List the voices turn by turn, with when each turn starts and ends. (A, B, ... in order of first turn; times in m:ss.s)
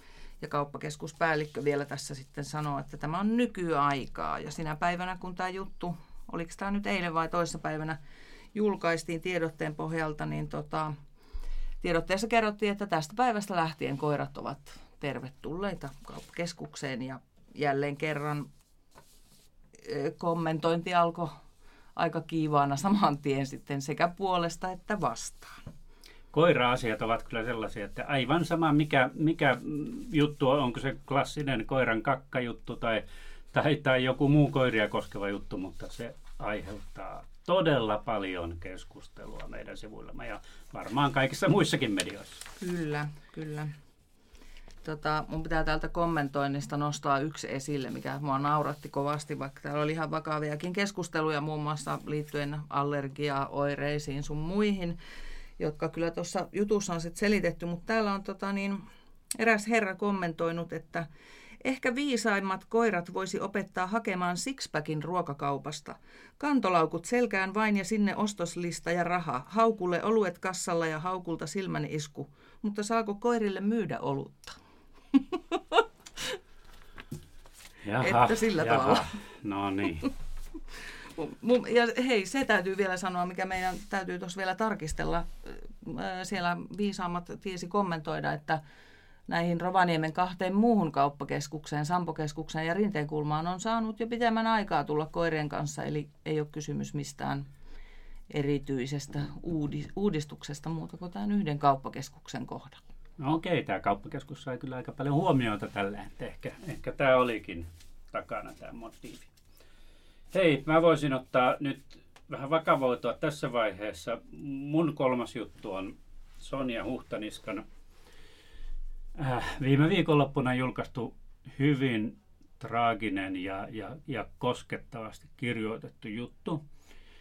0:00.4-0:08.0 A
0:08.5-0:10.9 A
0:11.8-0:18.5 A
0:19.8-0:21.3 A
0:22.0-0:25.6 A
0:26.3-0:42.4 B
0:42.6-0:43.7 A
0:44.8-0:55.0 A
0:55.6-0:58.8 A
0:59.3-1:01.0 A
1:01.6-1:14.6 A
1:15.1-1:15.8 A
1:17.8-1:20.1 B
1:18.0-1:19.1 A
1:21.2-1:28.6 A
1:29.3-1:37.5 A
1:38.3-1:42.8 A
1:43.2-1:49.3 B
1:50.3-1:57.6 B
1:59.2-2:06.6 B